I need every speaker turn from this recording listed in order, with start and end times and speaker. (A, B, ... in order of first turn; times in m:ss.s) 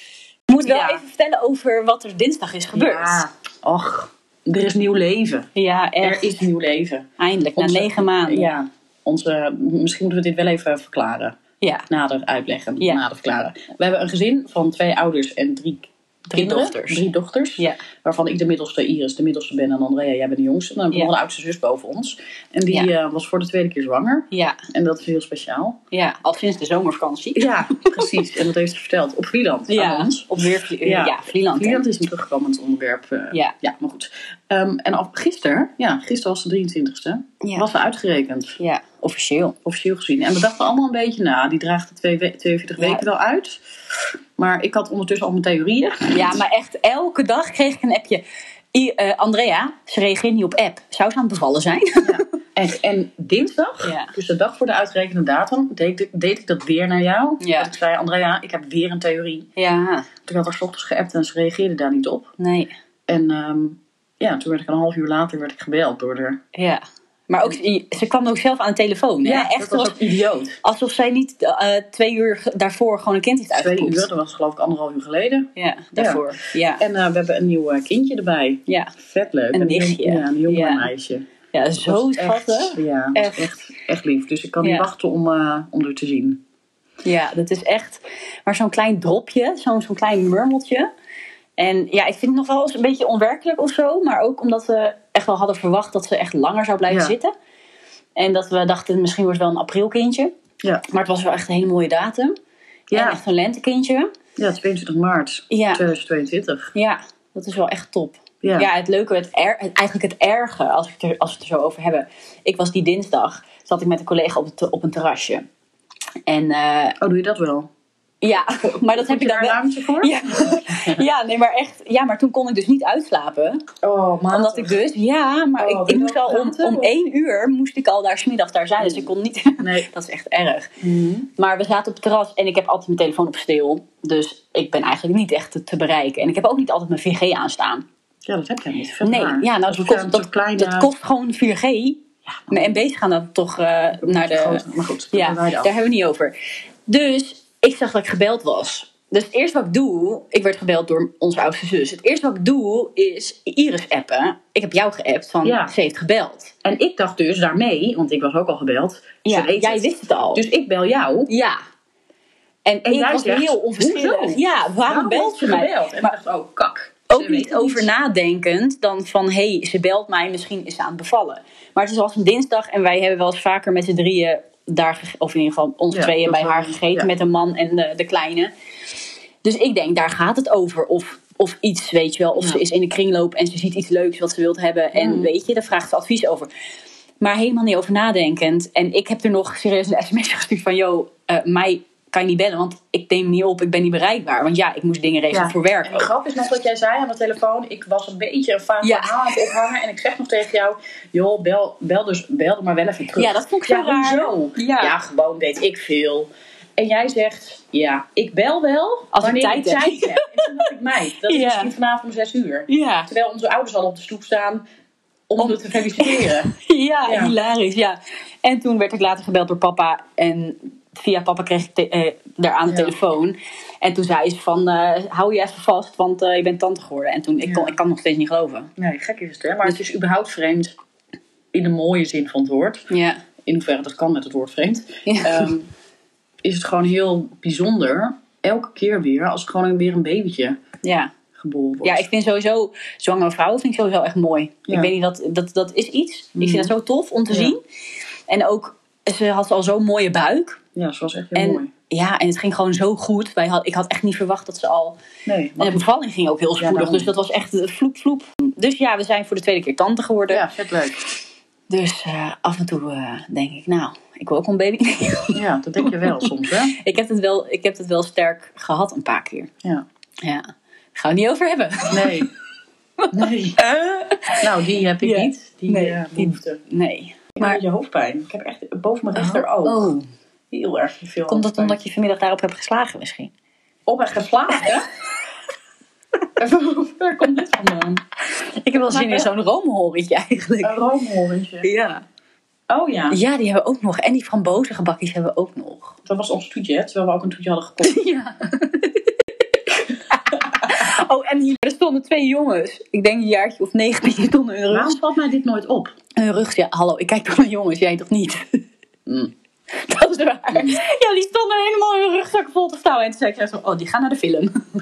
0:00.5-0:03.3 A
0:00.6-0:01.0 B
0:02.7-0:05.5 B
0:05.5-0:06.3 A
0:06.0-0:11.4 B
0:07.2-0:08.5 A
0:11.9-0:25.8 B
0:16.3-0:17.0 A
0:24.3-0:24.6 A
0:25.9-0:28.2 A
0:27.3-0:38.6 B
0:29.7-0:31.8 A
0:37.4-0:37.7 A
0:38.6-0:39.6 A
0:39.6-0:43.6 B
0:42.8-0:43.0 A
0:44.4-0:46.4 B
0:46.1-0:48.2 A
0:48.7-0:52.2 A
0:52.0-0:59.5 B
0:53.8-0:54.1 A
0:57.4-0:57.7 A
0:59.6-1:00.1 A
1:00.2-1:02.3 B
1:02.4-1:02.7 A
1:03.1-1:06.4 B
1:06.5-1:10.0 A
1:09.2-1:10.6 B
1:10.6-1:14.1 A
1:13.5-1:21.3 B
1:15.6-1:16.8 A
1:18.7-1:18.9 A
1:19.5-1:20.9 A
1:21.5-1:23.5 A
1:21.8-1:26.4 B
1:24.6-1:24.9 A
1:27.0-1:30.9 A
1:31.6-1:37.3 A
1:36.9-1:37.1 B
1:38.2-1:40.3 A
1:40.9-1:42.4 A
1:42.9-1:43.2 B
1:42.9-1:44.1 A
1:44.4-1:46.7 B
1:45.5-1:45.9 A
1:46.7-1:55.4 A
1:48.4-1:48.7 B
1:56.3-1:57.0 A
1:57.0-1:57.7 B
1:58.2-2:03.6 A
1:58.6-2:01.0 B
2:03.8-2:04.8 B
2:04.3-2:10.7 A
2:05.6-2:06.9 B
2:08.8-2:09.1 B
2:09.6-2:09.9 B
2:10.8-2:11.3 B
2:11.4-2:17.8 A
2:18.2-2:20.9 B
2:19.0-2:26.3 A
2:22.4-2:22.8 B
2:24.0-2:25.7 B
2:26.9-2:36.5 A
2:35.4-2:35.7 B
2:36.6-2:41.3 B
2:39.2-2:40.4 A
2:41.3-2:41.6 A
2:42.6-2:46.1 A
2:42.8-2:47.9 B
2:47.1-2:58.5 A
2:55.9-2:57.1 B
2:59.4-3:06.5 A
3:04.9-3:05.3 B
3:07.2-3:16.1 A
3:15.3-3:34.6 B
3:18.8-3:19.6 A
3:23.2-3:25.0 A
3:29.1-3:30.7 A
3:31.2-3:31.7 A
3:32.7-3:33.1 A
3:35.3-3:36.5 B
3:35.4-3:48.7 A
3:37.0-3:37.3 B
3:42.7-3:42.9 B
3:47.4-3:47.8 B
3:48.8-3:50.8 B
3:51.5-3:52.9 B
3:52.9-3:53.2 A
3:53.4-3:55.7 B
3:55.0-3:55.5 A
3:56.4-4:00.6 B
4:00.8-4:01.1 A
4:01.4-4:02.1 B
4:01.8-4:07.6 A
4:06.4-4:06.7 B
4:07.3-4:07.6 B
4:08.3-4:10.6 A
4:10.7-4:11.7 B
4:11.3-4:15.0 A
4:15.2-4:15.9 B
4:15.6-4:20.5 A
4:16.6-4:17.1 B
4:20.3-4:21.0 B
4:21.7-4:29.5 A
4:25.3-4:26.8 B
4:30.2-4:32.3 A
4:31.9-4:32.3 B
4:33.0-4:34.5 A
4:33.1-4:33.6 B
4:34.4-4:36.6 B
4:35.0-4:37.6 A
4:37.4-4:39.9 B
4:39.1-4:40.0 A
4:40.5-4:41.8 B
4:41.3-4:43.3 A
4:43.9-4:44.9 B
4:44.5-4:44.8 A
4:46.4-4:48.0 B
4:48.3-4:50.8 A
4:48.9-4:49.3 B
4:50.6-4:51.7 B
4:51.6-4:52.0 A
4:52.7-4:53.2 B
4:53.1-4:56.0 A
4:56.0-4:58.0 B
4:57.8-5:05.0 A
5:04.7-5:05.9 B
5:06.2-5:08.6 A
5:09.1-5:09.3 B
5:09.7-5:14.5 A
5:10.5-5:10.8 B